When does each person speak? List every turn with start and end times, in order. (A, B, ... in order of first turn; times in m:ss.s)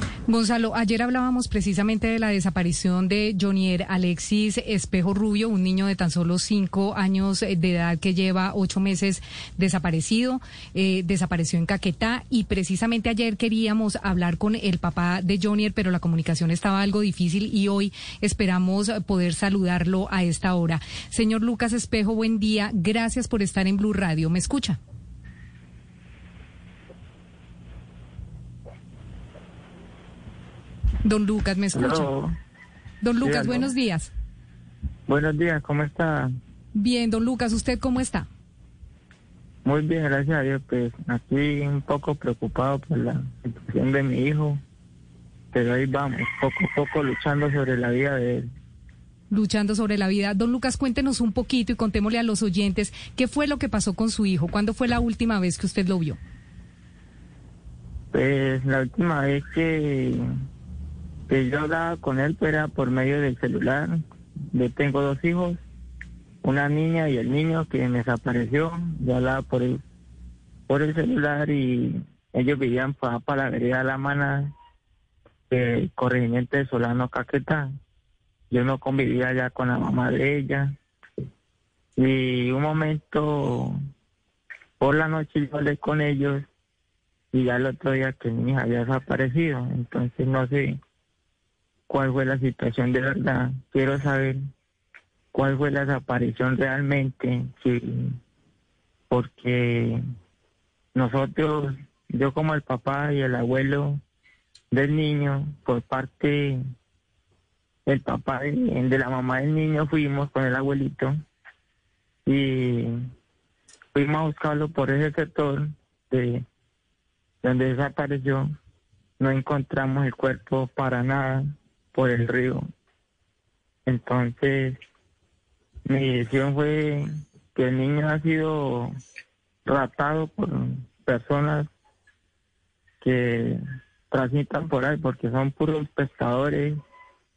0:00.3-0:24.8 A
0:31.0-0:32.1 A
0:31.7-0:32.3 B
0:33.0-0:34.1 A
0:33.2-0:33.7 B
0:35.1-0:36.3 B
0:36.7-0:38.2 A
0:39.6-0:44.6 B
0:45.5-0:48.5 B
0:49.3-0:56.2 A
0:58.1-1:00.2 B
1:01.3-1:04.0 B
1:04.5-1:05.6 B
1:06.4-1:09.8 B
1:10.7-1:14.5 B
1:15.5-1:17.7 B
1:18.5-1:20.7 B
1:22.0-1:23.7 B
1:24.8-1:26.4 B
1:27.3-1:30.8 B
1:31.9-1:34.4 B
1:35.3-1:38.1 B
1:39.1-1:40.0 B
1:40.9-1:44.0 B
1:44.7-1:46.6 B
1:47.9-1:51.1 B
1:52.2-1:52.9 B
1:53.9-1:56.4 B
1:57.4-1:58.5 B
1:59.2-2:02.6 B
2:03.8-2:04.8 B
2:05.8-2:08.9 B
2:09.6-2:11.7 B
2:13.0-2:13.6 B
2:14.1-2:16.8 B